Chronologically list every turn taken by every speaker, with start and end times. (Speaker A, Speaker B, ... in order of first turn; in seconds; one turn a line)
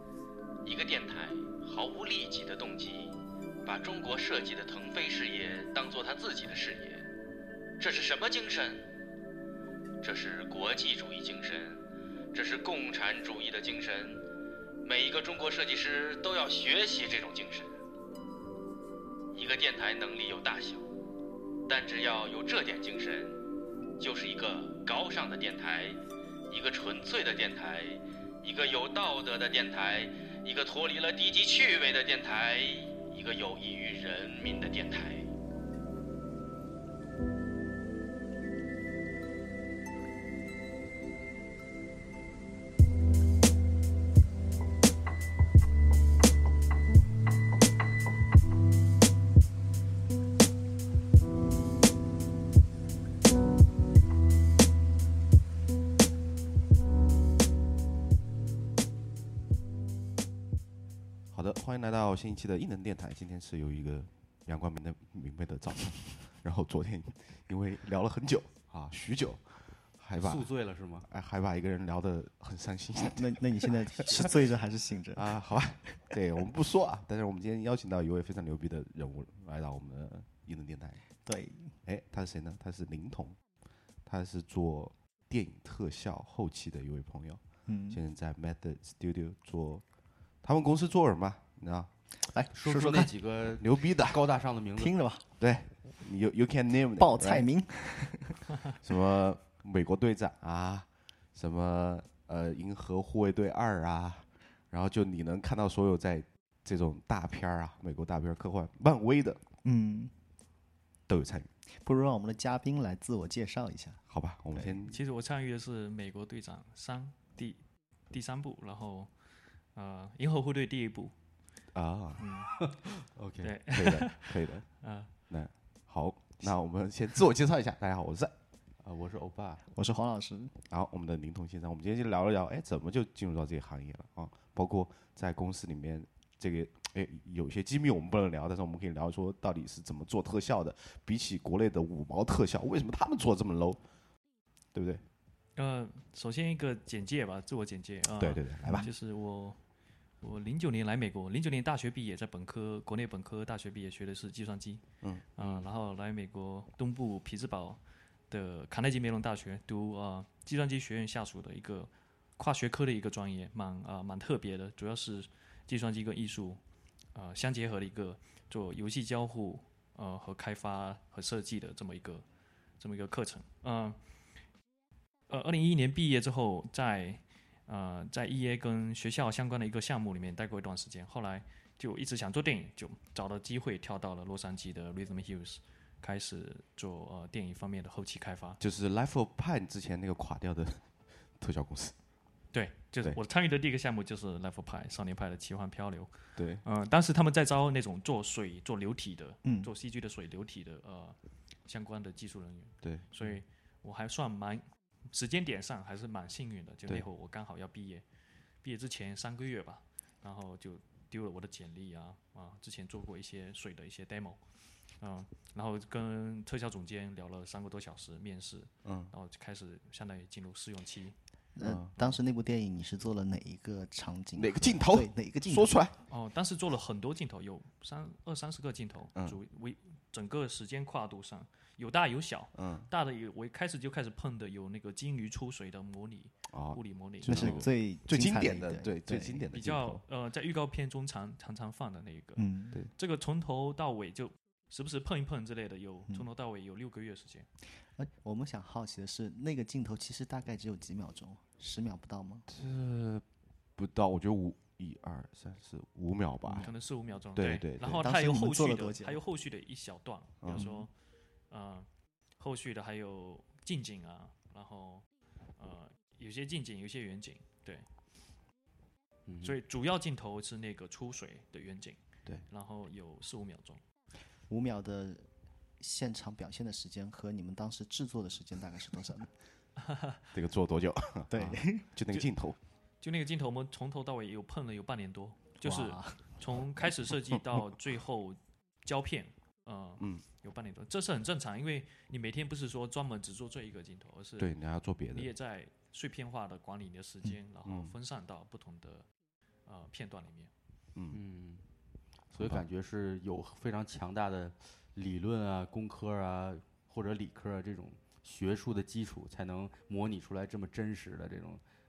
Speaker A: 0.6-7.1
Speaker A: 7.8-8.9
Speaker A: 10.0-14.2
Speaker A: 14.8-17.8
Speaker A: 19.3-20.9
Speaker A: 21.6-23.4
Speaker A: 24.0-35.3
Speaker B: 61.3-70.5
Speaker C: 70.2-71.1
Speaker B: 71.0-74.3
Speaker D: 73.0-75.9
Speaker B: 75.2-81.0
Speaker D: 81.2-81.8
Speaker B: 81.8-83.4
Speaker B: 84.0-89.8
Speaker D: 87.7-88.0
Speaker B: 90.4-91.9
Speaker D: 92.2-93.1
Speaker C: 92.5-95.0
Speaker B: 93.6-94.2
Speaker D: 94.8-95.2
Speaker B: 95.4-97.4
Speaker D: 97.0-98.4
Speaker B: 98.7-109.4
Speaker D: 109.6-110.1
Speaker B: 111.1-111.5
Speaker D: 111.7-114.0
Speaker B: 114.1-115.0
Speaker E: 114.8-119.1
Speaker E: 119.7-121.1
Speaker B: 121.7-122.2
Speaker E: 122.2-122.7
Speaker C: 122.6-123.8
Speaker E: 123.4-125.1
Speaker B: 123.7-128.3
Speaker C: 128.8-129.6
Speaker D: 129.7-130.5
Speaker B: 130.7-143.8
Speaker B: 144.7-145.0
Speaker E: 145.6-149.6
Speaker B: 148.2-148.9
Speaker D: 148.6-148.9
Speaker E: 150.2-154.8
Speaker E: 155.3-166.6
Speaker E: 167.1-172.2
Speaker E: 172.8-174.0
Speaker E: 175.3-188.6
Speaker B: 188.6-191.9
Speaker E: 192.5-196.1
Speaker B: 196.3-196.6
Speaker E: 196.6-208.0
Speaker D: 199.4-199.7
Speaker B: 202.8-203.1
Speaker E: 208.6-214.4
Speaker E: 215.0-221.2
Speaker B: 218.8-219.1
Speaker D: 221.6-225.8
Speaker B: 221.6-222.1
Speaker B: 224.3-225.9
Speaker E: 226.1-237.5
Speaker B: 232.6-232.9
Speaker B: 236.5-240.0
Speaker D: 237.2-239.5
Speaker C: 237.3-237.6
Speaker E: 239.5-247.5
Speaker D: 242.4-242.8
Speaker D: 247.9-252.5
Speaker B: 252.5-253.2
Speaker B: 253.8-256.7
Speaker E: 256.6-260.9
Speaker B: 257.4-258.1
Speaker D: 257.9-259.2
Speaker B: 260.4-260.7
Speaker E: 261.5-261.9
Speaker E: 262.4-265.0
Speaker E: 265.6-267.9
Speaker C: 269.3-269.6
Speaker E: 269.4-273.8
Speaker D: 274.5-275.3
Speaker D: 275.8-279.3
Speaker E: 279.8-280.2
Speaker B: 280.3-282.6
Speaker D: 281.3-281.9
Speaker E: 283.0-294.5
Speaker D: 285.6-286.3
Speaker B: 294.4-295.3
Speaker E: 295.1-299.0
Speaker B: 297.6-297.9
Speaker E: 299.6-300.5
Speaker C: 301.1-301.6
Speaker C: 302.3-311.6
Speaker B: 302.4-302.6